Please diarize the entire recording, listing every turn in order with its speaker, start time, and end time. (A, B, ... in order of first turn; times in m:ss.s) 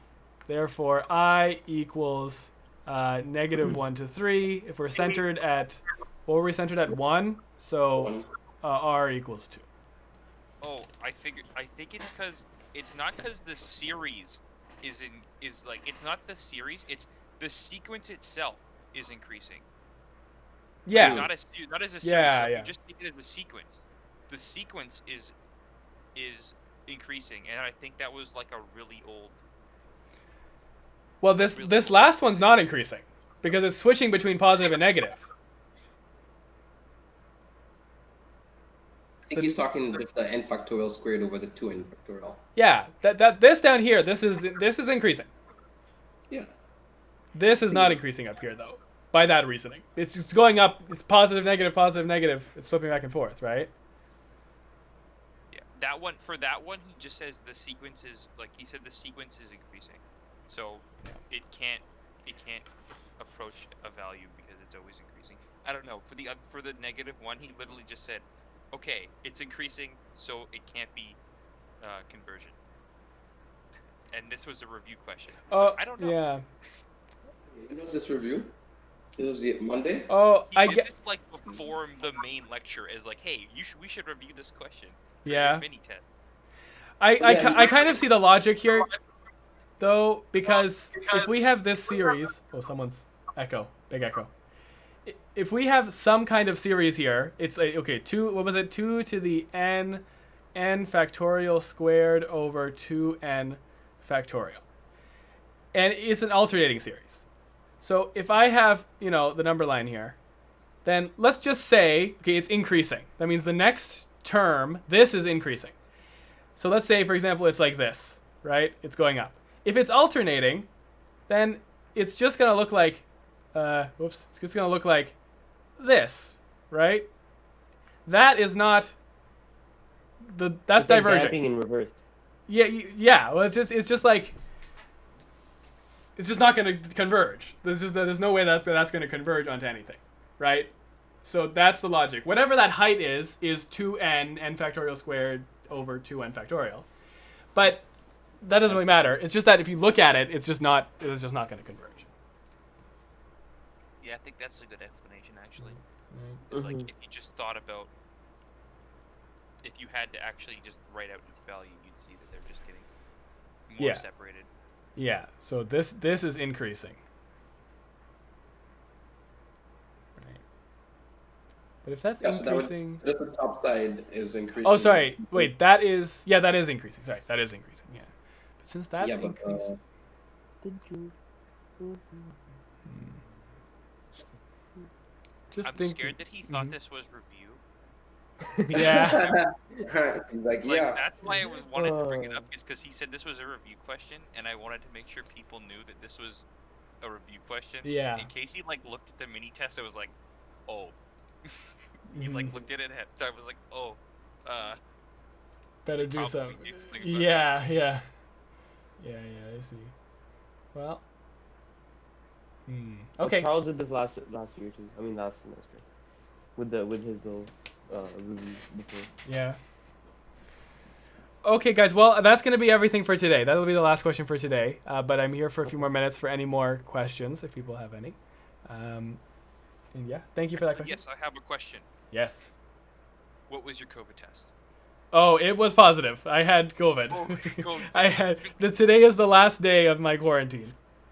0:00.5-0:09.6 A
0:08.0-0:08.3 B
0:10.6-0:19.6 C
0:20.8-0:21.3 A
0:20.9-0:21.3 D
0:20.9-0:25.3 C
0:22.0-0:22.7 A
0:26.2-0:29.4 C
0:31.2-0:35.3 A
0:31.4-0:32.6 C
0:39.2-0:42.4 B
0:39.3-0:39.6 A
0:42.6-0:45.3 A
0:47.3-0:53.7 A
0:47.7-0:48.0 B
0:55.5-1:02.7 C
1:03.2-1:11.2 C
1:11.8-1:12.6 C
1:14.1-1:16.2 C
1:15.5-1:16.4 A
1:17.5-1:18.5 B
1:19.2-1:20.1 B
1:20.1-1:20.9 A
1:20.5-1:26.1 C
1:25.2-1:25.6 A
1:27.0-1:28.9 A
1:27.2-1:27.8 B
1:29.8-1:34.3 A
1:35.1-1:44.6 A
1:45.7-1:47.3 A
1:47.8-1:50.2 A
1:50.8-1:55.7 A
1:56.6-2:00.7 A
2:01.3-2:05.2 A
2:05.8-2:07.1 A
2:08.1-2:09.0 A
2:10.3-2:11.4 A
2:10.8-2:12.1 D
2:12.5-2:14.4 A
2:16.2-2:20.7 A
2:21.2-2:26.9 A
2:27.5-2:27.8 A
2:28.4-2:32.1 A
2:28.7-2:29.1 D
2:34.0-2:35.8 C
2:35.6-2:36.4 A
2:36.5-2:36.9 D
2:36.5-2:37.9 C
2:39.6-2:42.9 C
2:43.7-2:44.5 C
2:43.8-2:44.0 A
2:45.0-2:47.0 A
2:51.8-2:53.0 A
2:52.2-2:55.5 B
2:54.6-2:59.8 A
2:59.0-2:59.8 B
3:00.6-3:01.1 D
3:01.8-3:02.4 D
3:02.9-3:03.2 A
3:05.5-3:06.8 A
3:05.6-3:07.6 C
3:08.4-3:08.9 D
3:08.7-3:09.2 A
3:08.8-3:11.0 B
3:10.6-3:16.5 C
3:11.7-3:12.5 D
3:17.0-3:20.1 C
3:17.8-3:18.3 A
3:20.7-3:24.8 C
3:22.1-3:22.6 A
3:25.8-3:28.0 A
3:26.0-3:27.5 C
3:29.0-3:29.9 A
3:30.7-3:31.0 A
3:32.7-3:33.5 A
3:33.2-3:35.8 D
3:36.6-3:39.1 D
3:39.2-3:39.6 A
3:41.4-3:49.2 A
3:49.9-3:51.0 A
3:50.6-3:51.9 C
3:52.1-3:52.5 A
3:53.5-3:54.5 C
3:55.1-4:00.8 A
3:57.1-3:58.8 C